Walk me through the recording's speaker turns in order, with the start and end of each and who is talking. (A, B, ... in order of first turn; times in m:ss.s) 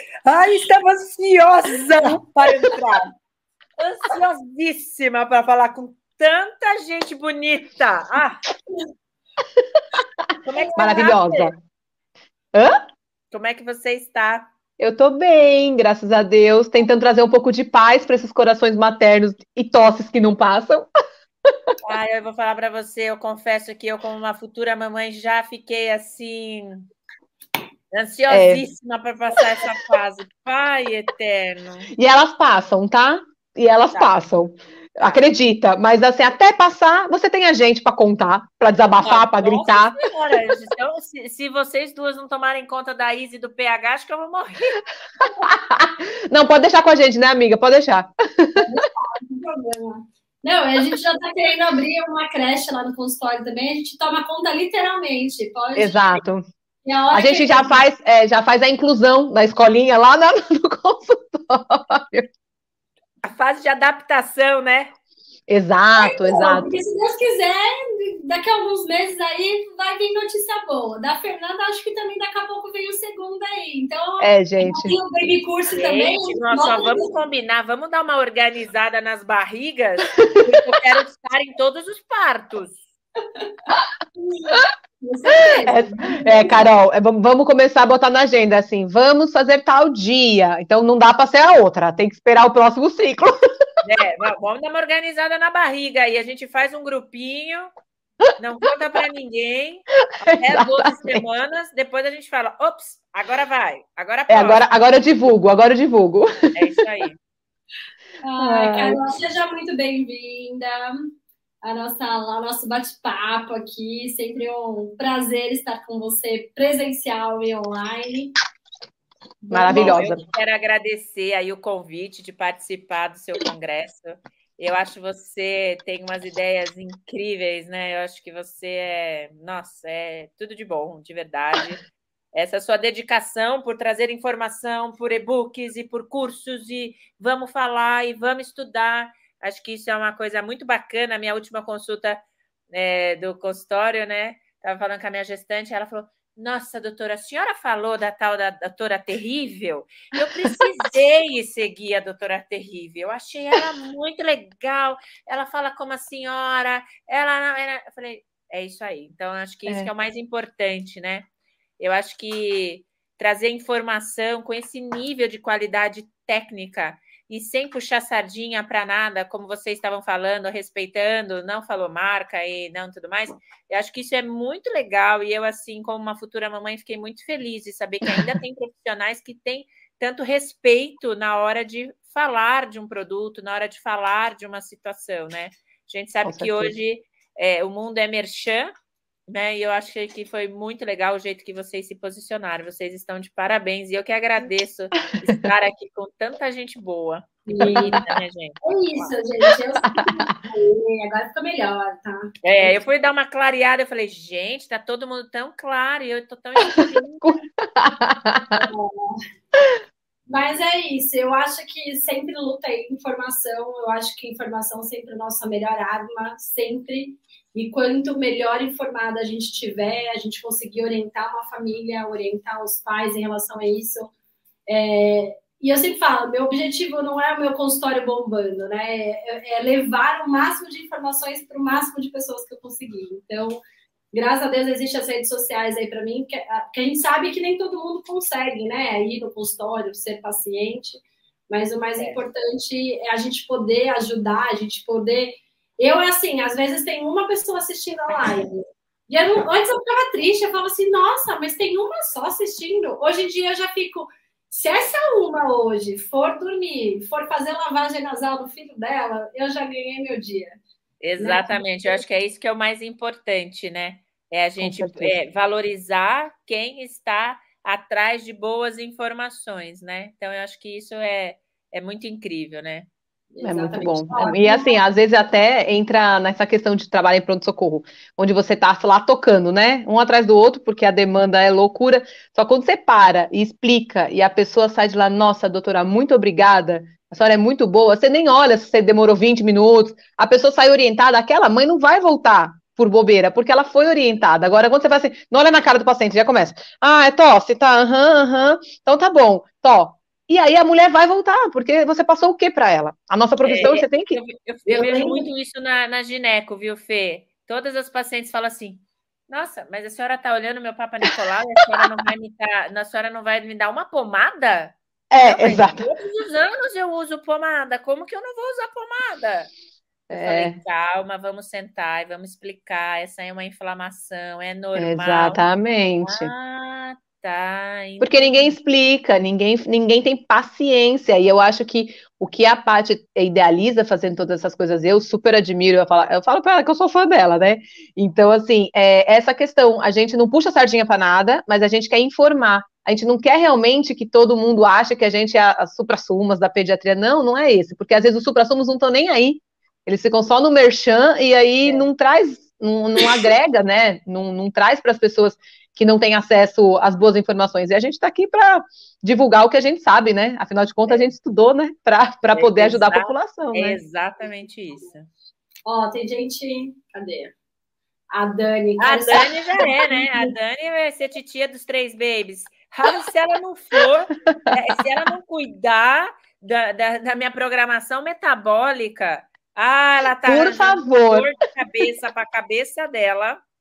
0:00.2-0:03.1 A
0:02.4-0:02.8 B
0:03.8-0:08.4 A
0:10.4-0:11.5 A
0:10.6-0:11.1 C
0:10.8-0:11.5 B
0:13.3-0:14.5 A
0:14.8-0:20.9 B
0:21.4-0:21.7 B
0:21.8-0:26.9 A
0:27.9-0:31.9 A
0:28.3-0:28.6 B
0:31.9-0:40.0 B
0:39.0-0:44.8 A
0:45.4-0:48.6 B
0:48.6-0:56.2 C
0:55.8-0:56.4 B
0:56.8-0:57.8 C
0:57.1-1:02.3 B
1:03.2-1:04.9 A
1:05.5-1:06.7 B
1:06.0-1:17.1 C
1:14.2-1:15.0 B
1:15.8-1:22.8 A
1:24.2-1:26.6 C
1:25.6-1:33.3 B
1:33.8-1:37.7 A
1:38.4-1:44.6 A
1:40.2-1:41.2 B
1:44.3-1:46.7 B
1:46.5-1:47.2 A
1:48.2-1:50.9 C
1:48.4-1:49.0 B
1:51.6-1:58.3 C
1:59.5-2:00.0 C
1:59.5-2:00.2 B
1:59.6-2:11.8 A
2:12.3-2:22.2 A
2:22.7-2:41.3 A
2:30.2-2:30.5 B
2:41.8-3:08.7 A
3:06.2-3:06.7 B
3:09.3-3:19.1 A
3:17.5-3:18.0 C
3:17.6-3:18.2 B
3:18.6-3:22.7 C
3:22.4-3:27.4 A
3:26.6-3:28.7 B
3:28.6-3:29.2 C
3:30.3-3:44.1 C
3:44.7-3:53.6 C
3:54.1-4:20.6 C
4:21.0-4:32.9 A
4:21.2-4:21.6 C
4:24.6-4:25.1 B
4:33.3-4:34.7 C
4:33.4-5:05.3 B
5:03.4-5:19.5 A
5:15.1-5:15.9 B
5:20.1-5:20.6 B
5:20.1-5:25.4 A
5:24.8-5:26.3 B
5:26.0-5:28.5 A
5:28.0-6:03.8 B
5:51.6-5:51.9 A
6:02.3-6:05.1 A
6:05.6-6:07.3 C
6:08.1-6:10.3 C
6:08.8-6:23.4 A
6:20.2-6:21.3 B